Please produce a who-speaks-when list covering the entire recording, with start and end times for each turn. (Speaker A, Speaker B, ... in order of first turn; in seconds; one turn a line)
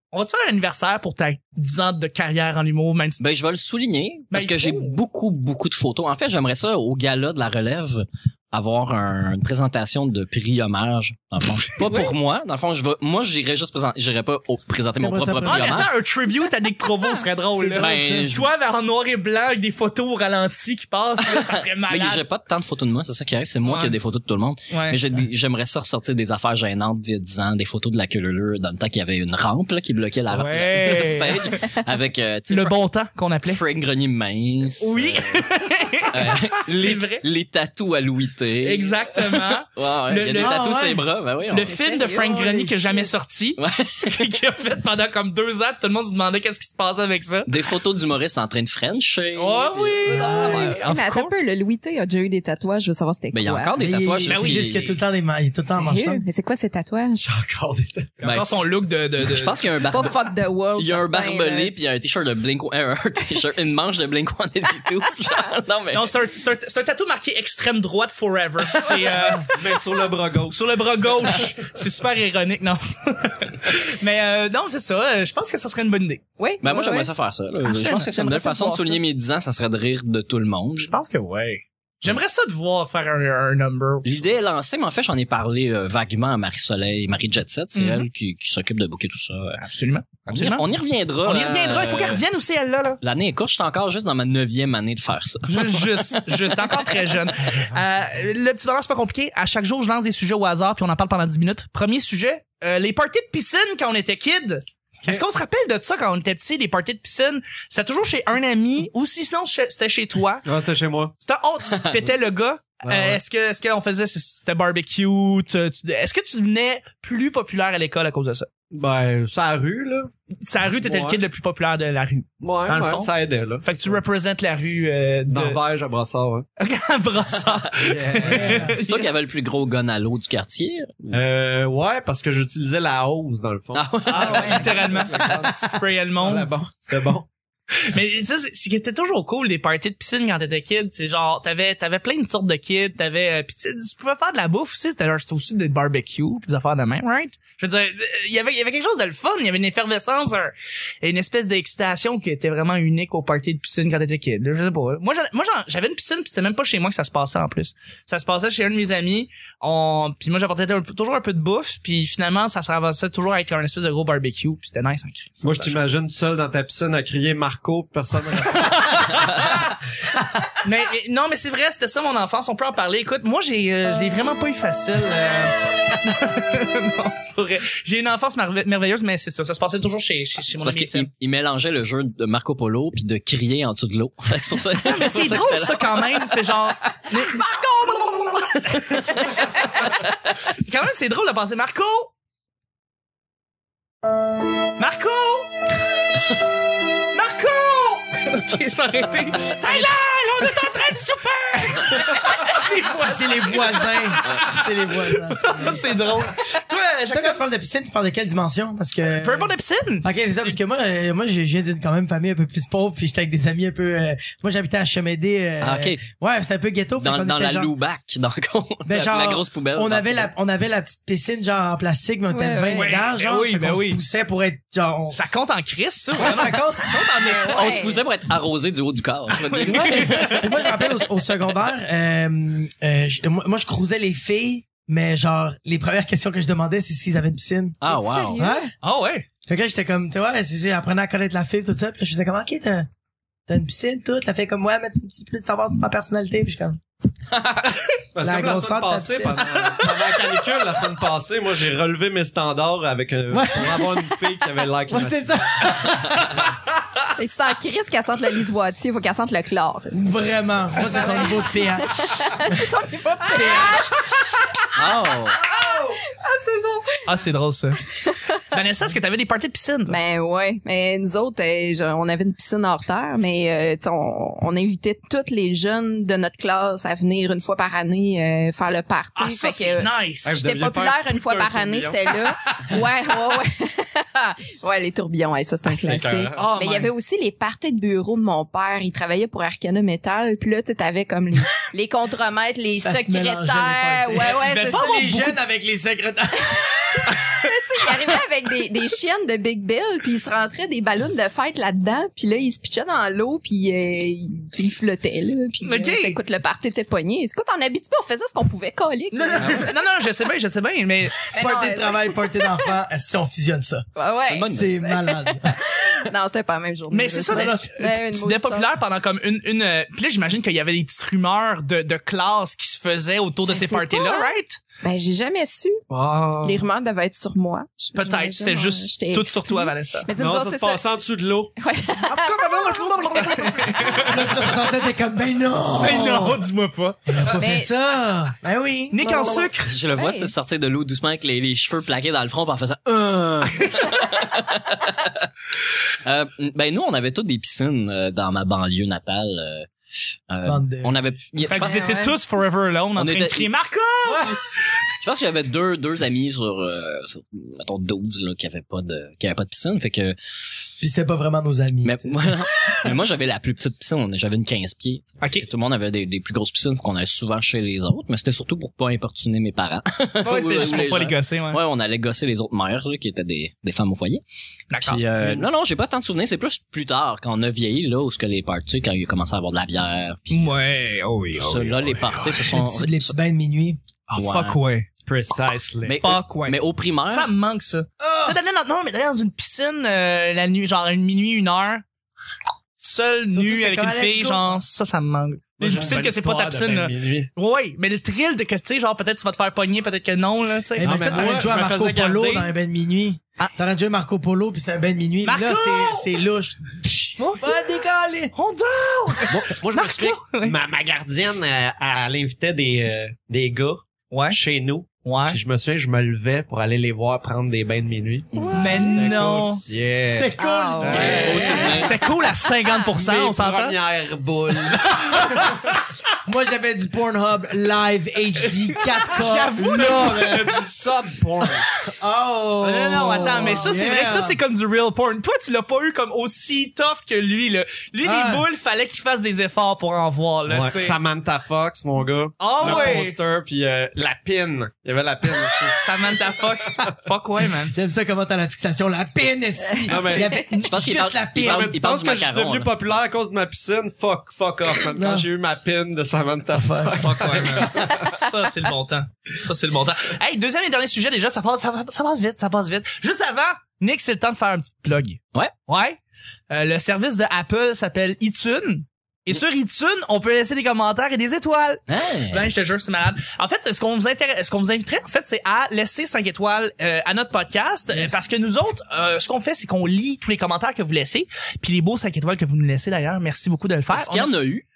Speaker A: 0.1-3.2
Speaker B: 3.2-15.9
Speaker A: 4.3-5.0
Speaker C: 15.0-15.9
Speaker A: 15.5-22.2
Speaker C: 17.6-18.3
Speaker B: 17.8-18.5
Speaker B: 21.3-32.8
Speaker A: 23.6-24.0
Speaker A: 24.7-25.0
Speaker A: 30.3-31.7
Speaker A: 32.5-33.6
Speaker B: 33.5-35.5
Speaker A: 34.8-37.2
Speaker B: 36.1-41.7
Speaker A: 38.6-40.6
Speaker C: 40.4-41.1
Speaker A: 41.5-47.5
Speaker D: 41.6-42.4
Speaker C: 42.0-43.1
Speaker B: 43.6-44.3
Speaker B: 47.5-50.7
Speaker A: 49.4-51.4
Speaker C: 50.1-51.0
Speaker D: 50.8-53.8
Speaker B: 53.3-54.9
Speaker C: 53.8-56.2
Speaker A: 54.3-54.9
Speaker D: 55.8-57.3
Speaker E: 57.2-58.2
Speaker A: 58.2-59.5
Speaker B: 58.2-66.2
Speaker D: 59.9-61.7
Speaker A: 65.9-69.5
Speaker B: 68.8-69.1
Speaker E: 69.5-71.7
Speaker A: 70.5-76.2
Speaker D: 76.4-77.1
Speaker B: 76.6-80.9
Speaker D: 77.6-79.0
Speaker A: 80.8-84.3
Speaker B: 84.0-89.6
Speaker A: 87.8-88.1
Speaker A: 89.6-90.6
Speaker B: 90.3-92.2
Speaker A: 91.2-93.0
Speaker B: 93.0-96.2
Speaker A: 95.5-110.5
Speaker E: 110.5-111.1
Speaker A: 111.2-118.5
Speaker E: 112.8-113.2
Speaker E: 118.7-120.1
Speaker A: 120.4-123.1
Speaker E: 120.8-121.2
Speaker E: 122.4-124.0
Speaker A: 123.6-125.6
Speaker E: 125.3-126.5
Speaker A: 126.6-129.1
Speaker B: 127.4-127.7
Speaker E: 127.8-128.8
Speaker C: 128.3-128.8
Speaker B: 128.3-131.2
Speaker E: 131.1-137.3
Speaker B: 133.7-134.7
Speaker D: 134.1-134.9
Speaker A: 134.2-136.5
Speaker A: 137.8-165.8
Speaker E: 165.4-169.2
Speaker A: 168.4-169.8
Speaker A: 170.6-181.1
Speaker B: 180.6-186.2
Speaker A: 184.8-192.1
Speaker A: 194.8-195.5
Speaker A: 197.1-207.4
Speaker C: 202.1-206.0
Speaker B: 204.2-204.6
Speaker C: 207.1-209.5
Speaker A: 209.2-210.1
Speaker C: 210.0-217.7
Speaker B: 215.6-216.0
Speaker B: 217.0-220.3
Speaker C: 218.9-225.3
Speaker D: 222.3-223.0
Speaker A: 222.7-224.0
Speaker A: 225.1-226.6
Speaker C: 226.2-227.9
Speaker D: 227.2-228.0
Speaker B: 227.5-230.6
Speaker A: 229.3-230.5
Speaker C: 229.7-237.8
Speaker B: 237.8-238.4
Speaker D: 237.8-238.6
Speaker C: 238.4-238.7
Speaker A: 238.8-239.2
Speaker C: 239.5-242.9
Speaker C: 243.5-246.8
Speaker E: 248.2-256.5
Speaker C: 248.2-249.4
Speaker C: 253.3-254.2
Speaker C: 254.9-256.4
Speaker D: 257.2-260.1
Speaker C: 259.9-262.6
Speaker D: 260.8-267.1
Speaker C: 263.3-263.9
Speaker B: 264.8-265.4
Speaker A: 267.1-267.8
Speaker D: 268.1-268.4
Speaker A: 268.5-270.0
Speaker D: 269.9-295.2
Speaker A: 279.2-280.4
Speaker E: 280.2-282.7
Speaker E: 285.6-286.5
Speaker A: 286.4-286.9
Speaker C: 292.8-297.1
Speaker A: 294.4-295.4
Speaker D: 296.4-309.7
Speaker A: 305.6-306.2
Speaker A: 309.1-311.2
Speaker D: 311.3-312.7
Speaker C: 311.4-313.9
Speaker D: 314.0-318.7
Speaker B: 314.3-314.7
Speaker C: 314.5-316.0
Speaker A: 316.9-324.6
Speaker C: 317.3-317.8
Speaker D: 323.4-325.8
Speaker E: 325.9-326.7
Speaker D: 326.4-330.9
Speaker A: 328.0-330.1
Speaker E: 330.1-331.5
Speaker D: 331.6-334.2
Speaker A: 332.0-334.5
Speaker C: 334.0-336.4
Speaker A: 335.8-337.2
Speaker C: 337.1-339.5
Speaker D: 337.4-337.7
Speaker A: 338.9-339.7
Speaker B: 339.6-345.3
Speaker D: 339.9-340.3
Speaker B: 346.0-349.7
Speaker B: 350.3-352.1
Speaker C: 350.4-351.0
Speaker A: 351.5-354.4
Speaker D: 351.5-352.2
Speaker B: 353.0-353.5
Speaker C: 354.0-354.4
Speaker B: 354.9-360.7
Speaker C: 360.8-362.9
Speaker B: 361.8-374.2
Speaker A: 365.2-365.5
Speaker A: 370.2-371.6
Speaker A: 374.7-375.4
Speaker B: 374.8-380.6
Speaker A: 380.3-382.4
Speaker B: 381.4-383.2
Speaker C: 382.3-383.8
Speaker A: 384.1-384.9
Speaker B: 384.2-384.6
Speaker E: 385.0-386.0
Speaker B: 385.8-387.3
Speaker A: 386.0-386.6
Speaker A: 387.1-391.8
Speaker C: 388.0-388.4
Speaker A: 392.8-401.6
Speaker C: 393.3-394.6
Speaker E: 395.6-397.3
Speaker C: 395.7-395.9
Speaker C: 400.8-408.3
Speaker E: 400.8-402.5
Speaker A: 405.2-406.1
Speaker A: 407.2-407.6
Speaker A: 408.3-410.6
Speaker E: 409.3-421.8
Speaker A: 414.1-414.4
Speaker A: 415.0-415.4
Speaker D: 418.4-419.0
Speaker B: 418.4-418.7
Speaker A: 418.5-419.6
Speaker C: 420.1-421.9
Speaker D: 420.4-422.1
Speaker A: 420.9-423.8
Speaker B: 420.9-422.0
Speaker E: 423.0-425.3
Speaker A: 425.0-425.8
Speaker C: 425.3-425.6
Speaker C: 426.2-430.6
Speaker A: 428.4-430.6
Speaker E: 429.9-431.6
Speaker C: 431.4-434.4
Speaker A: 432.6-441.0
Speaker C: 438.0-438.5
Speaker E: 440.5-445.8
Speaker A: 442.4-443.2
Speaker C: 442.6-442.9
Speaker A: 445.8-447.8
Speaker C: 447.6-451.8
Speaker E: 449.9-450.4
Speaker D: 449.9-450.5
Speaker B: 450.7-452.8
Speaker E: 451.4-458.1
Speaker C: 454.9-455.2
Speaker C: 456.5-457.9
Speaker A: 457.2-466.0
Speaker A: 466.5-484.3
Speaker B: 471.9-472.5
Speaker C: 477.9-478.2
Speaker B: 483.9-484.6